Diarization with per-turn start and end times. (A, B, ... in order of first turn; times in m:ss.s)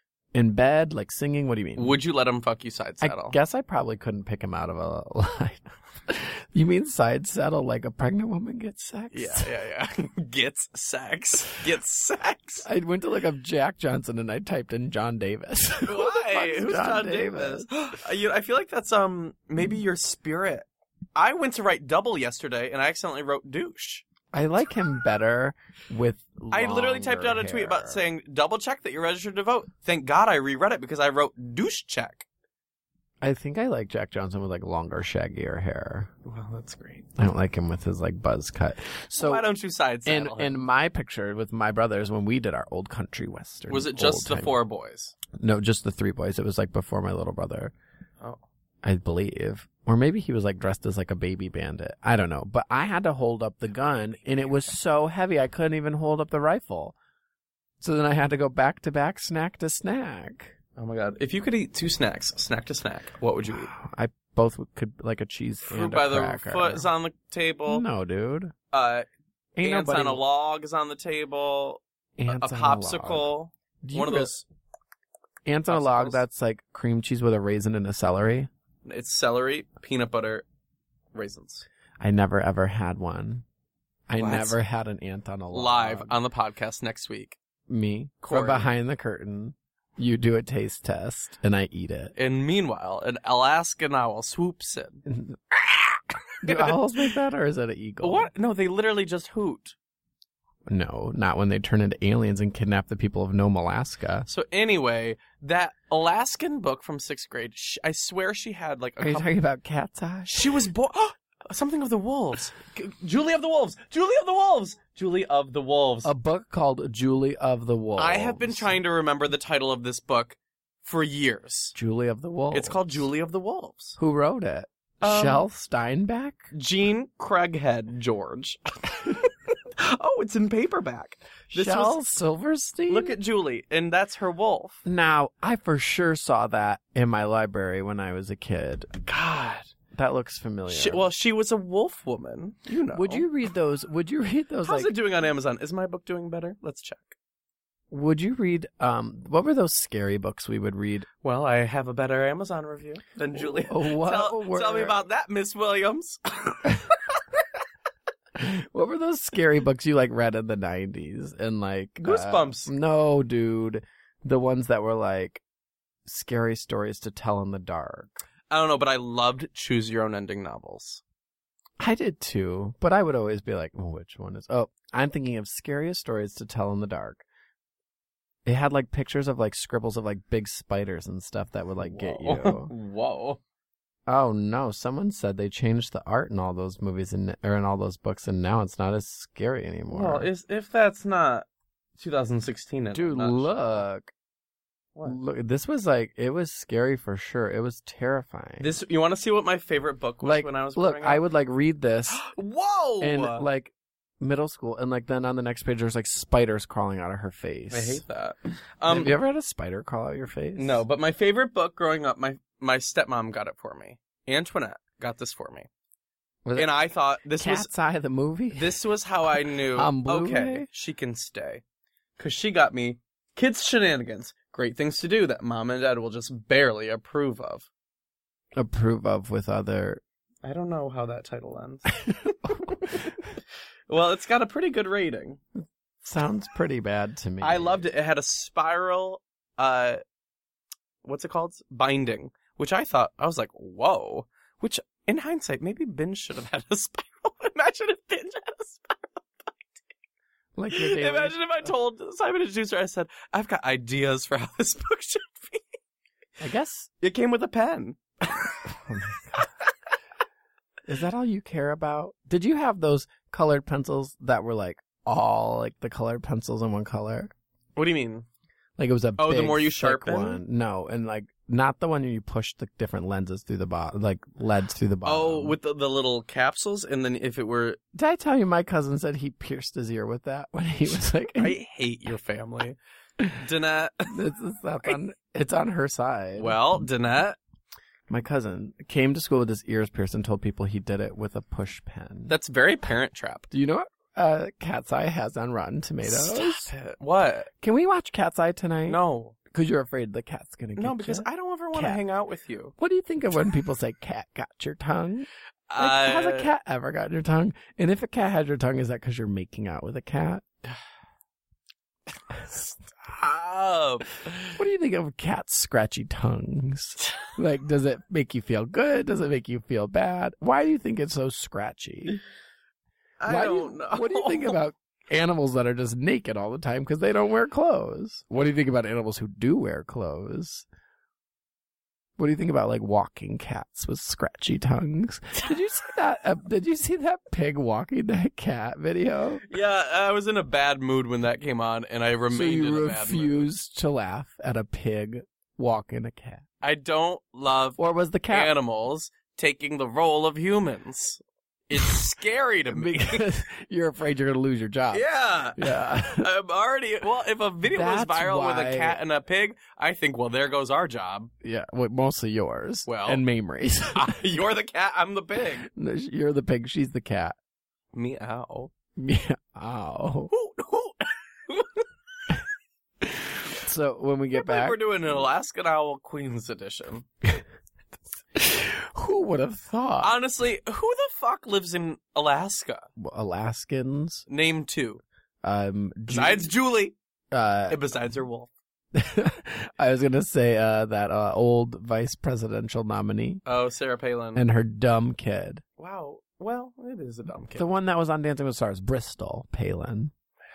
0:00.3-0:02.0 A
0:01.8-0:03.4 B
0:03.0-0:09.5 A
0:09.1-0:12.7 B
0:12.6-0:17.7 A
0:15.9-0:24.1 B
0:24.3-0:28.0 A
0:26.5-0:32.3 B
0:33.2-0:36.1 A
0:36.2-0:37.1 B
0:37.2-0:39.5 A
0:39.2-0:40.6 B
0:40.0-0:44.6 A
0:43.7-0:45.1 B
0:45.3-0:47.7 A
0:48.8-0:57.0 A
0:57.8-1:00.6 A
1:00.8-1:03.7 B
1:03.5-1:06.9 A
1:05.7-1:07.9 B
1:07.7-1:08.5 A
1:08.7-1:09.1 B
1:09.6-1:10.2 A
1:09.6-1:14.5 B
1:12.2-1:13.3 A
1:13.8-1:14.3 A
1:15.4-1:18.5 A
1:15.7-1:16.2 B
1:18.8-1:20.4 B
1:21.1-1:21.7 B
1:22.0-1:23.4 A
1:24.1-1:26.1 A
1:24.2-1:24.6 B
1:25.5-1:27.4 B
1:27.7-1:32.1 A
1:28.2-1:28.7 B
1:32.2-1:35.0 B
1:35.1-1:38.3 A
1:36.4-1:36.8 B
1:38.0-1:39.8 B
1:40.7-1:44.3 A
1:44.3-1:49.3 B
1:49.0-1:50.7 A
1:50.3-1:56.1 B
1:56.0-1:58.8 A
1:58.0-2:01.8 B
2:01.7-2:03.1 A
2:02.5-2:04.0 B
2:04.0-2:06.5 A
2:05.0-2:05.5 B
2:06.5-2:12.0 B
2:11.5-2:13.2 A
2:12.9-2:14.8 B
2:14.8-2:18.9 A
2:19.1-2:19.7 B
2:19.9-2:21.0 A
2:20.7-2:23.3 B
2:22.9-2:24.9 A
2:24.6-2:27.2 B
2:27.9-2:31.1 A
2:31.2-2:36.9 B
2:33.3-2:35.0 A
2:38.4-2:45.4 A
2:42.0-2:42.7 B
2:46.1-2:48.2 A
2:48.5-2:51.0 B
2:51.8-2:57.2 A
2:58.5-3:02.7 A
3:01.8-3:03.4 B
3:04.1-3:10.3 A
3:09.9-3:11.5 B
3:12.0-3:13.8 B
3:12.9-3:14.1 A
3:15.0-3:18.7 A
3:18.6-3:21.2 B
3:20.2-3:22.2 A
3:22.1-3:23.4 B
3:23.0-3:28.0 A
3:27.7-3:29.2 B
3:28.9-3:30.8 A
3:30.6-3:35.7 B
3:36.4-3:36.7 A
3:36.6-3:37.7 B
3:37.4-3:38.8 A
3:38.5-3:41.6 B
3:39.8-3:40.7 A
3:42.2-3:47.7 B
3:48.6-3:50.0 A
3:50.4-3:51.9 B
3:52.0-3:53.1 A
3:52.6-3:53.2 B
3:53.9-3:55.4 B
3:56.0-3:57.8 A
3:57.4-4:00.0 B
4:01.0-4:09.8 B
4:10.6-4:11.7 A
4:10.7-4:15.8 B
4:16.4-4:16.9 A
4:17.0-4:18.8 B
4:18.8-4:19.5 A
4:19.4-4:19.7 B
4:20.9-4:27.3 A
4:27.8-4:28.3 B
4:28.8-4:35.6 A
4:29.2-4:30.4 B
4:35.0-4:37.8 B
4:37.9-4:41.6 A
4:41.4-4:42.8 B
4:43.3-4:44.2 B
4:44.1-4:46.6 A
4:46.4-4:47.4 B
4:48.1-4:52.3 A
4:52.3-4:53.5 B
4:53.5-4:56.7 A
4:56.0-4:57.5 B
4:57.6-5:02.0 A
4:58.9-4:59.4 B
5:00.8-5:02.8 B
5:02.8-5:10.4 A
5:05.7-5:06.5 B
5:13.0-5:14.6 B
5:14.6-5:22.2 A
5:23.2-5:24.6 B
5:23.3-5:30.7 A
5:32.2-5:39.4 A
5:39.4-5:43.5 B
5:42.3-5:46.4 A
5:46.6-5:53.2 B
5:47.8-5:48.6 A
5:52.7-5:56.3 A
5:54.9-6:01.3 B
5:57.7-5:59.0 A
6:01.4-6:04.2 A
6:02.9-6:03.2 B
6:03.9-6:05.7 B
6:05.7-6:07.4 A
6:07.9-6:08.7 B
6:09.0-6:10.3 A
6:10.3-6:11.9 B
6:13.0-6:14.8 A
6:14.4-6:17.1 B
6:18.3-6:20.2 A
6:20.0-6:22.9 B
6:23.0-6:24.2 A
6:24.3-6:25.0 B
6:25.4-6:26.5 A
6:26.1-6:27.0 B
6:27.3-6:27.8 A
6:27.7-6:28.5 B
6:28.9-6:33.4 A
6:33.4-6:34.4 B
6:34.4-6:35.6 A
6:35.8-6:37.7 B
6:37.6-6:40.1 A